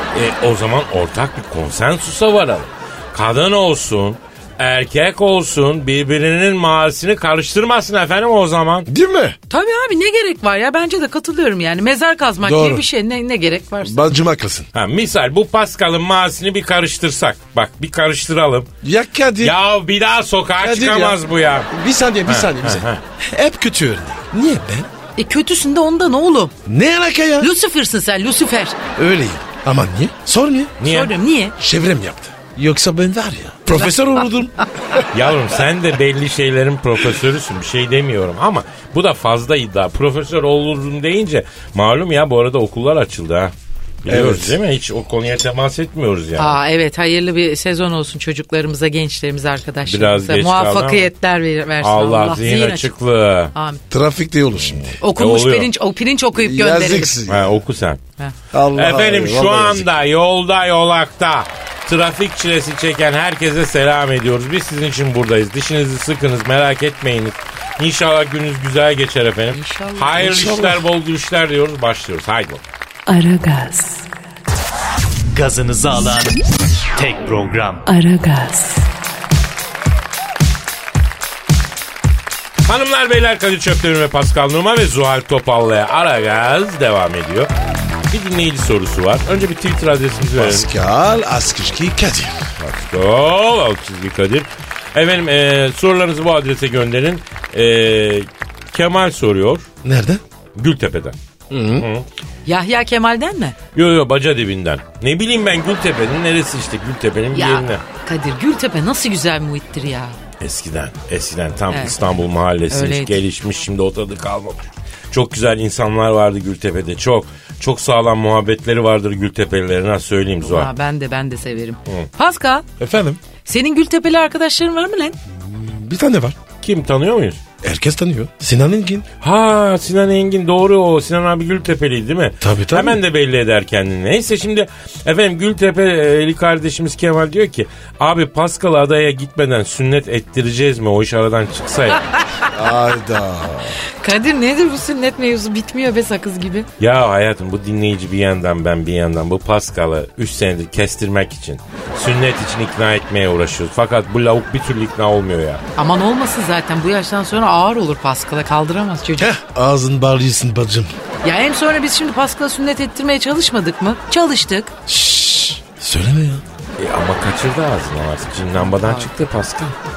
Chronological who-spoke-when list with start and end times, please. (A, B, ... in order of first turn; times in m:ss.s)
0:00.1-0:08.9 A
0:08.9-0:09.4 B
0:09.5-0:14.0 C
0:12.4-0:12.8 B
0:13.8-0:14.7 B
0:14.7-0:18.7 A
0:18.8-0:19.6 B
0:19.4-0:21.7 A
0:20.6-0:21.2 B
0:21.7-0:24.9 B
0:22.3-0:23.0 A
0:25.2-0:26.5 C
0:26.7-0:27.5 B
0:27.4-0:28.8 C
0:29.0-0:30.8 B
0:30.8-0:31.1 A
0:30.8-0:31.6 C
0:31.6-0:35.0 B
0:35.1-0:46.6 A
0:44.1-0:44.6 B
0:46.4-0:52.9 C
0:49.9-0:51.1 A
0:51.8-0:53.5 A
0:53.6-0:53.8 C
0:53.9-0:55.0 B
0:54.7-0:55.7 A
0:55.0-0:57.1 C
0:56.4-0:57.6 B
0:57.3-0:58.0 A
0:58.5-0:59.9 B
0:58.8-1:12.6 A
1:09.5-1:10.8 C
1:13.1-1:14.1 D
1:15.3-1:16.4 E
1:17.0-1:17.8 E
1:17.8-1:18.9 D
1:22.6-1:27.5 A
1:28.1-1:30.7 A
1:30.4-1:32.5 B
1:32.6-1:39.7 A
1:39.8-1:40.2 B
1:40.6-1:41.2 A
1:41.5-1:41.9 B
1:41.8-1:42.1 A
1:42.5-1:43.6 C
1:43.8-1:47.8 A
1:47.3-1:50.2 C
1:50.4-2:00.7 A
1:51.7-1:52.0 C
1:52.7-1:53.2 C
2:00.4-2:02.6 C
2:02.8-2:03.2 B
2:03.4-2:05.2 C
2:05.3-2:06.4 B
2:06.6-2:07.4 A
2:07.6-2:09.1 B
2:09.2-2:22.1 A
2:12.4-2:13.0 B
2:22.5-2:23.8 B
2:24.0-2:26.7 C
2:26.8-2:35.6 A
2:35.8-2:39.3 C
2:39.2-2:40.9 B
2:41.2-2:44.7 C
2:44.9-2:46.4 B
2:46.8-2:49.8 A
2:48.6-2:49.1 C